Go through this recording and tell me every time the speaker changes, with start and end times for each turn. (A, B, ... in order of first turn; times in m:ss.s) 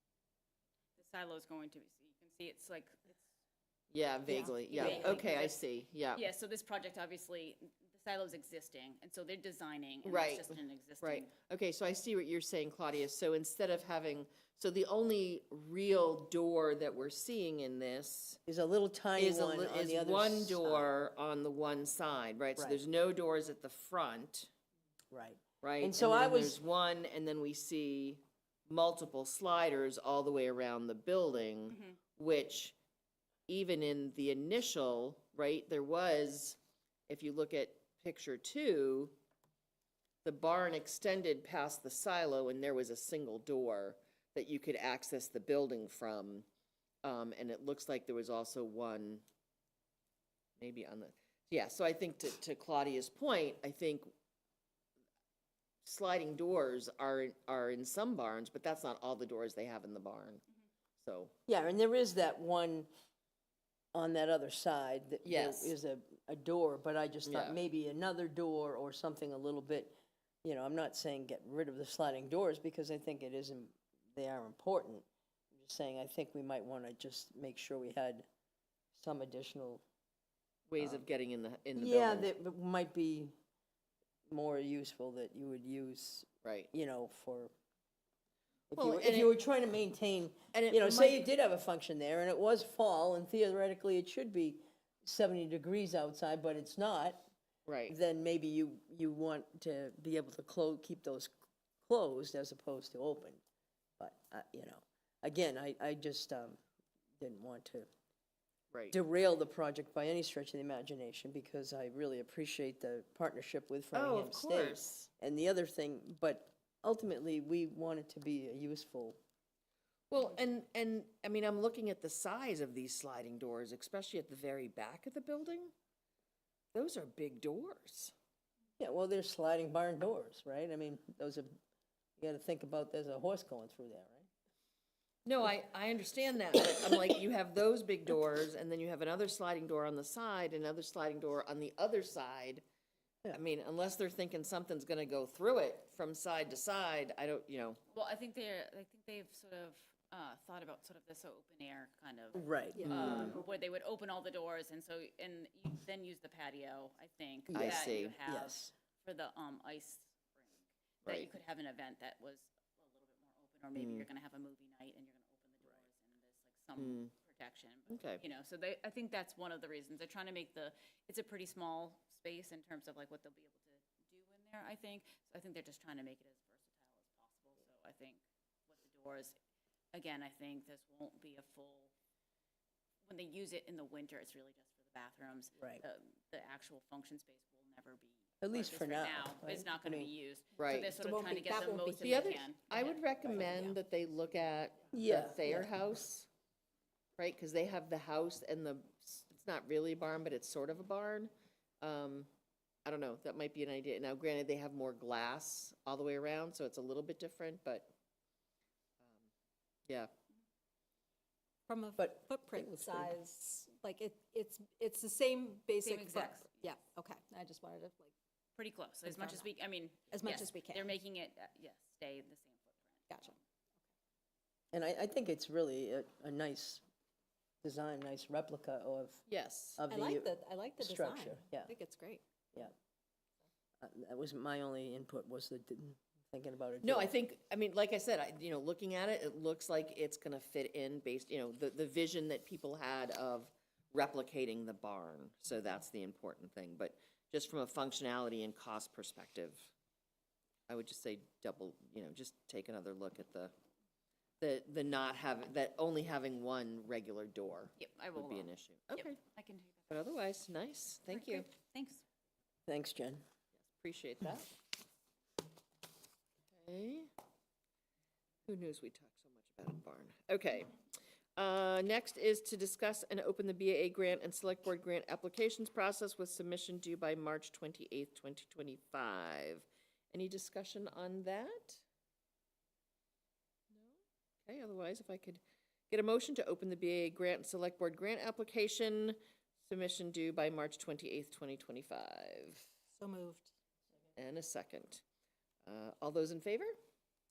0:01.0-0:03.2 A
0:03.9-0:06.2 B
0:04.3-0:05.0 C
0:04.7-0:05.6 A
0:04.8-0:05.1 D
0:06.1-0:11.3 A
0:10.0-0:18.4 B
0:18.5-0:20.9 D
0:19.2-0:24.5 B
0:25.1-0:26.6 D
0:25.6-0:32.8 B
0:31.7-0:32.0 A
0:33.5-0:39.2 B
0:40.2-0:46.5 B
0:47.0-0:49.2 B
0:50.6-0:54.1 B
0:55.8-1:00.4 B
1:01.0-1:01.3 B
1:01.5-1:02.9 D
1:03.9-1:18.3 D
1:05.2-1:05.8 B
1:07.3-1:07.6 B
1:18.9-1:19.8 D
1:20.7-1:22.3 B
1:21.8-1:23.4 D
1:24.3-1:27.5 D
1:26.4-1:26.7 B
1:28.7-1:37.2 D
1:28.8-1:29.4 B
1:30.5-1:31.3 B
1:37.7-1:38.0 B
1:37.9-1:43.4 D
1:44.0-1:46.6 D
1:47.2-1:47.9 D
1:48.7-1:49.0 B
1:48.9-1:59.2 D
1:53.9-1:55.1 B
2:00.1-2:05.7 B
2:06.7-2:08.1 B
2:08.8-2:11.5 D
2:12.2-2:14.3 D
2:15.2-2:22.6 B
2:23.3-2:27.8 B
2:27.9-2:59.4 A
2:32.4-2:33.3 D
2:32.8-2:33.4 C
2:32.9-2:33.4 B
2:37.5-2:38.7 D
2:37.5-2:38.2 B
2:41.0-2:41.3 B
2:43.8-2:44.1 B
2:46.8-2:47.1 B
2:47.9-2:48.2 B
2:59.9-3:01.9 A
3:03.0-3:12.8 A
3:05.6-3:05.8 D
3:08.4-3:10.1 D
3:10.6-3:10.9 B
3:11.0-3:12.3 C
3:12.0-3:16.3 B
3:14.9-3:15.7 D
3:17.2-3:22.3 B
3:22.8-3:27.9 B
3:29.0-3:29.3 B
3:31.7-3:38.1 C
3:32.0-3:33.2 D
3:35.8-3:36.6 A
3:38.6-3:43.4 A
3:39.1-3:39.5 C
3:40.1-3:40.9 C
3:44.7-3:46.8 D
3:47.6-3:49.2 D
3:49.3-3:49.8 B
3:49.8-3:51.7 D
3:49.9-3:52.2 C
3:53.8-3:57.1 D
3:56.8-4:09.7 B
4:10.7-4:13.5 B
4:14.4-4:19.2 B
4:17.8-4:19.9 A
4:19.9-4:21.5 B
4:21.1-4:22.0 A
4:22.7-4:23.2 D
4:23.6-4:24.6 B
4:26.6-4:27.1 B
4:28.5-4:30.8 B
4:31.4-4:41.8 B
4:43.7-4:52.7 B
4:52.9-4:53.5 C
4:54.2-4:55.0 B
4:55.6-4:56.8 B